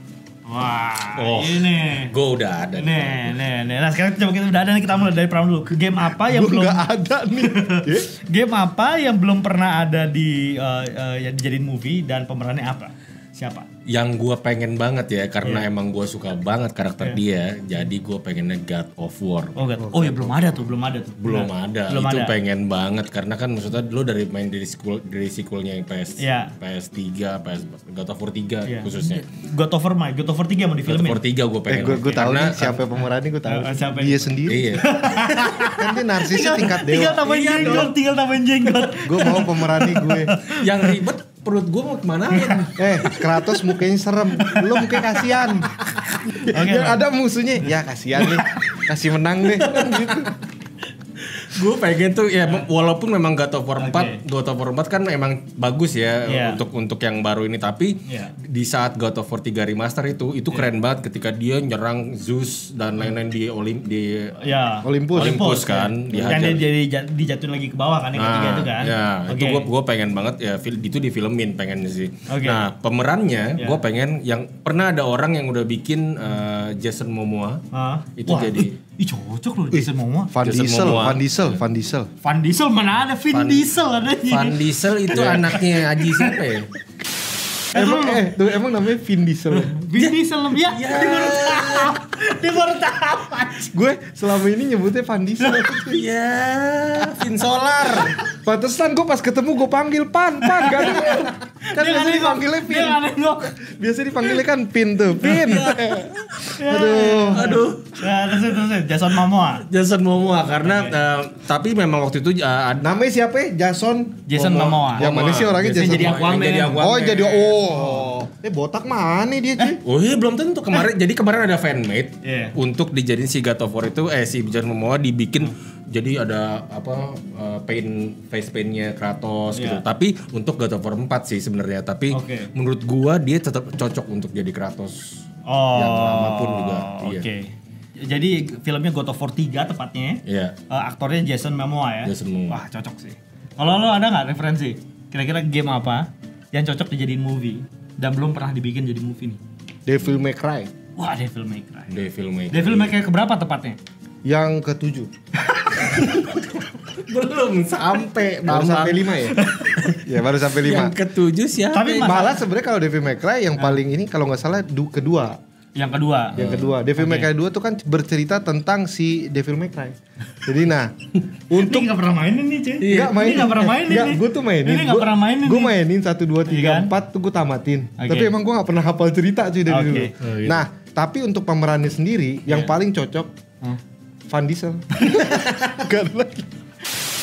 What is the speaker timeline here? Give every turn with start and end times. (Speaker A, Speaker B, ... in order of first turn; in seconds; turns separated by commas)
Speaker A: 0.5-2.1, Speaker B: 1.2-3.4, Speaker A: 2.8-6.9, Speaker C: 6.0-8.1, Speaker A: 7.4-13.7, Speaker B: 13.9-19.6, Speaker A: 19.6-22.4, Speaker C: 19.8-20.7, Speaker B: 21.2-29.2, Speaker A: 26.2-26.5, Speaker A: 28.6-31.2, Speaker B: 30.9-32.8, Speaker C: 31.7-34.6, Speaker A: 33.5-41.0, Speaker B: 34.5-34.9, Speaker C: 35.7-37.9, Speaker B: 37.2-37.9, Speaker C: 39.0-40.3, Speaker B: 40.6-43.2, Speaker A: 42.3-43.2, Speaker C: 42.8-45.7, Speaker A: 44.4-45.2, Speaker C: 46.4-50.3, Speaker A: 46.5-47.0, Speaker A: 48.2-48.8, Speaker A: 49.6-50.2, Speaker B: 51.2-64.3, Speaker A: 53.8-54.2, Speaker A: 56.3-56.6, Speaker A: 58.1-58.4, Speaker A: 64.4-69.7, Speaker C: 64.8-65.4, Speaker B: 65.1-66.7, Speaker C: 66.1-66.4, Speaker B: 68.2-77.6, Speaker A: 72.3-72.7, Speaker A: 77.7-80.3, Speaker B: 78.2-78.8, Speaker C: 79.7-82.1, Speaker B: 80.4-81.6, Speaker A: 82.2-84.6, Speaker B: 83.3-83.7, Speaker B: 84.3-86.7, Speaker C: 85.1-85.6, Speaker A: 85.1-86.4, Speaker A: 87.7-88.2, Speaker C: 87.7-89.7, Speaker A: 89.5-93.7, Speaker B: 90.0-92.0, Speaker C: 93.7-96.0, Speaker A: 95.4-95.7, Speaker B: 95.7-98.2, Speaker C: 98.3-103.0, Speaker A: 100.5-103.6, Speaker C: 103.6-107.6, Speaker B: 105.2-106.1, Speaker A: 105.3-105.8, Speaker A: 106.6-109.7, Speaker B: 107.3-108.0, Speaker B: 109.7-112.9, Speaker A: 110.6-111.0, Speaker C: 112.8-114.3, Speaker A: 114.3-115.1, Speaker B: 114.3-117.6, Speaker C: 115.0-119.8, Speaker A: 115.6-116.8, Speaker A: 117.7-118.1, Speaker B: 119.8-135.2, Speaker A: 122.2-122.5, Speaker A: 129.5-129.8, Speaker A: 132.1-132.5, Speaker A: 135.4-149.4, Speaker B: 135.7-137.3, Speaker B: 140.3-140.6, Speaker B: 142.1-142.6, Speaker C: 149.9-150.7, Speaker A: 151.0-152.0, Speaker B: 151.9-152.9, Speaker A: 152.5-153.8, Speaker C: 154.2-155.1, Speaker A: 155.6-156.1, Speaker B: 155.8-156.4, Speaker B: 157.0-160.0, Speaker C: 158.5-159.4, Speaker A: 159.3-159.8, Speaker C: 160.0-161.0, Speaker B: 160.5-162.3, Speaker A: 161.7-162.4, Speaker C: 162.0-165.4, Speaker A: 165.8-166.4, Speaker B: 166.3-166.8, Speaker C: 166.4-170.9, Speaker A: 167.0-167.3, Speaker C: 171.5-171.9, Speaker A: 171.6-175.7, Speaker B: 172.8-173.2, Speaker C: 172.8-183.3, Speaker A: 176.5-176.9, Speaker A: 178.0-178.3, Speaker A: 179.7-180.1, Speaker B: 180.2-180.7, Speaker C: 184.3-186.5, Speaker A: 185.0-185.4